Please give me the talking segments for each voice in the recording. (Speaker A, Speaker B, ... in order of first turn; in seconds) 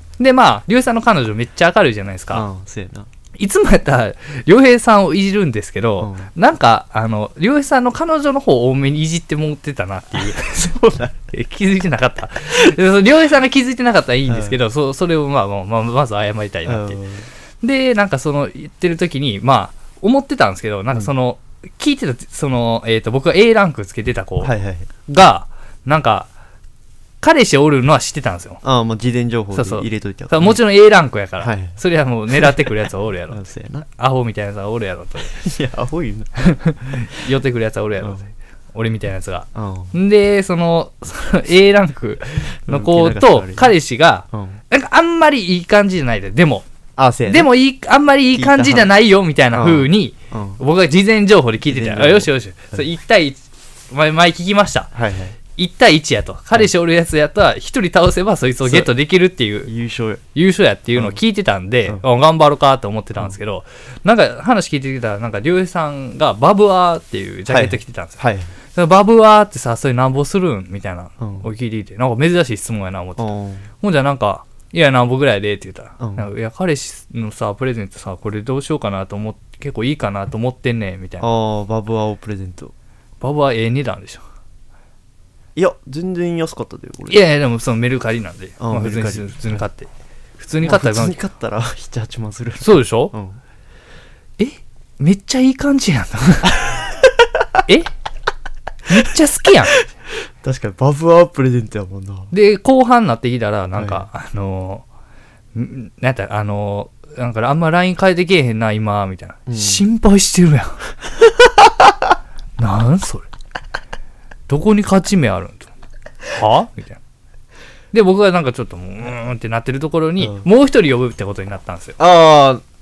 Speaker A: 0.2-2.4, 3.4-10.7, 11.3-17.0, 17.6-24.5, 25.1-26.3, 27.2-28.6, 29.5-35.4, 36.4-46.6, 47.3-54.9, 55.5-59.7, 60.3-68.2, 68.7-73.3, 73.8-81.3, 83.2-84.2, 87.1-91.2, 92.6-93.1, 94.4-96.5, 97.7-97.9, 98.9-99.8, 102.3-104.8, 105.5-110.8, 112.6-113.3, 114.5-115.7, 116.3-117.0, 117.9-122.0
Speaker B: 2.3-3.1, 6.0-6.3, 10.5-11.2, 14.3-14.6, 16.6-17.3, 24.4-24.9, 28.6-30.6, 31.4-31.8, 32.3-32.6, 33.3-33.9, 35.3-36.3, 38.0-38.2, 39.5-40.0, 42.6-43.7, 44.3-44.6, 47.0-47.5, 48.3-48.9, 49.5-50.6, 51.6-52.8, 54.9-55.4, 58.6-58.9, 59.6-60.2, 67.5-68.5, 71.2-71.5, 73.2-73.7, 76.0-76.3, 81.2-82.7, 85.5-87.2, 88.6-89.6, 90.6-93.4, 100.4-102.3, 103.8-104.0, 109.5-109.8, 120.2-120.5, 122.0-122.6